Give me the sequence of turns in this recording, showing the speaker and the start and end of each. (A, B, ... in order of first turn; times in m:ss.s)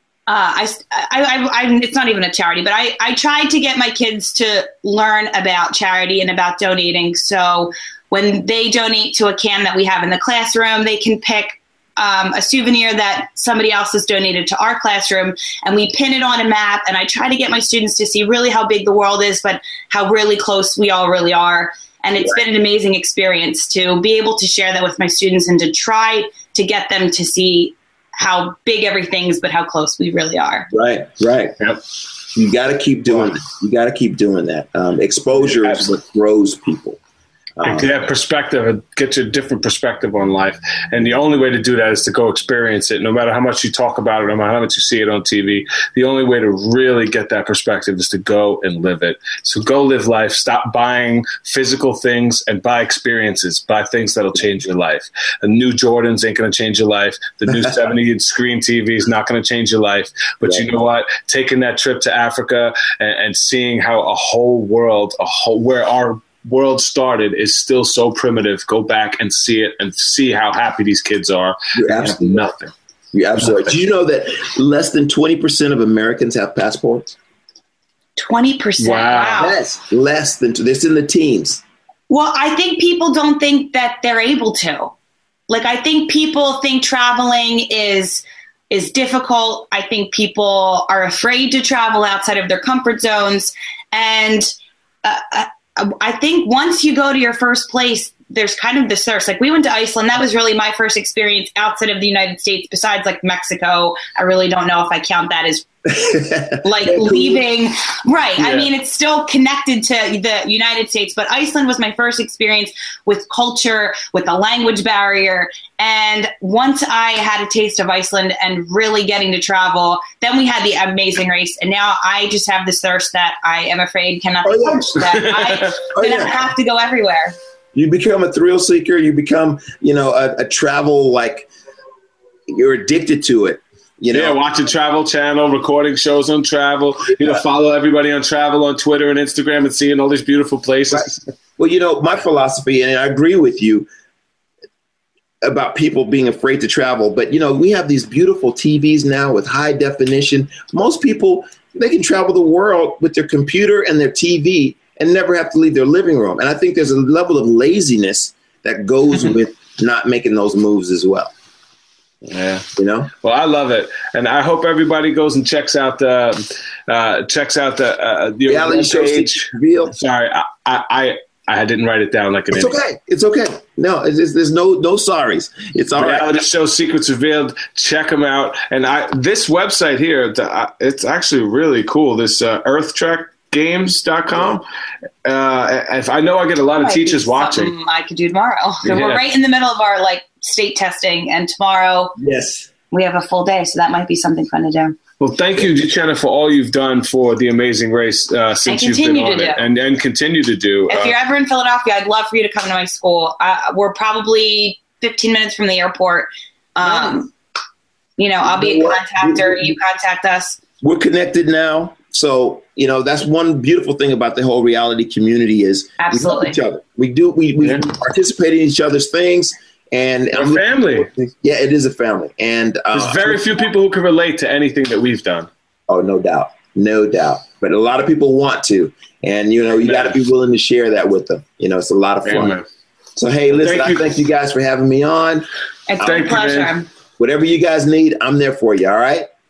0:00.3-0:30.7 A
0:30.7-0:31.6 B
0:32.3-0:37.0 B
0:35.5-0:35.9 C
0:37.6-0:38.1 B
0:37.6-1:12.7 C
1:00.4-1:00.7 B
1:11.8-1:12.6 B
1:13.1-1:17.1 B
1:18.2-1:19.6 A
1:18.8-1:19.4 C
1:19.4-1:21.6 B
1:22.1-1:24.9 A
1:25.5-1:34.5 A
1:35.0-1:45.6 A
1:45.9-1:47.4 B
1:46.6-2:07.4 A
1:48.4-1:48.7 C
2:04.4-2:05.3 B
2:05.2-2:05.8 C
2:05.9-2:06.4 B
2:07.7-2:11.5 B
2:12.5-2:14.4 B
2:14.1-2:21.2 C
2:17.1-2:17.4 B
2:20.9-2:23.9 B
2:25.4-2:41.3 B
2:42.2-2:42.6 C
2:42.8-2:43.1 B
2:43.2-2:52.8 C
2:48.5-2:49.9 B
2:52.5-2:56.5 B
2:56.0-3:04.6 C
3:05.2-3:07.7 C
3:06.8-3:12.2 A
3:08.8-3:09.2 C
3:12.2-3:12.7 B
3:12.9-3:15.0 A
3:15.2-3:21.1 C
3:18.7-3:19.6 A
3:20.9-3:27.3 A
3:28.2-3:30.6 A
3:28.4-3:29.7 B
3:30.8-3:43.6 B
3:36.0-3:36.6 A
3:40.3-3:41.1 C
3:42.9-3:45.5 C
3:45.9-3:52.6 B
3:49.8-3:50.2 C
3:52.2-3:52.6 C
3:53.2-3:55.5 B
3:53.5-3:54.2 C
3:55.9-3:56.9 A
3:56.0-3:56.6 B
3:56.0-3:56.8 C
3:57.2-3:59.3 B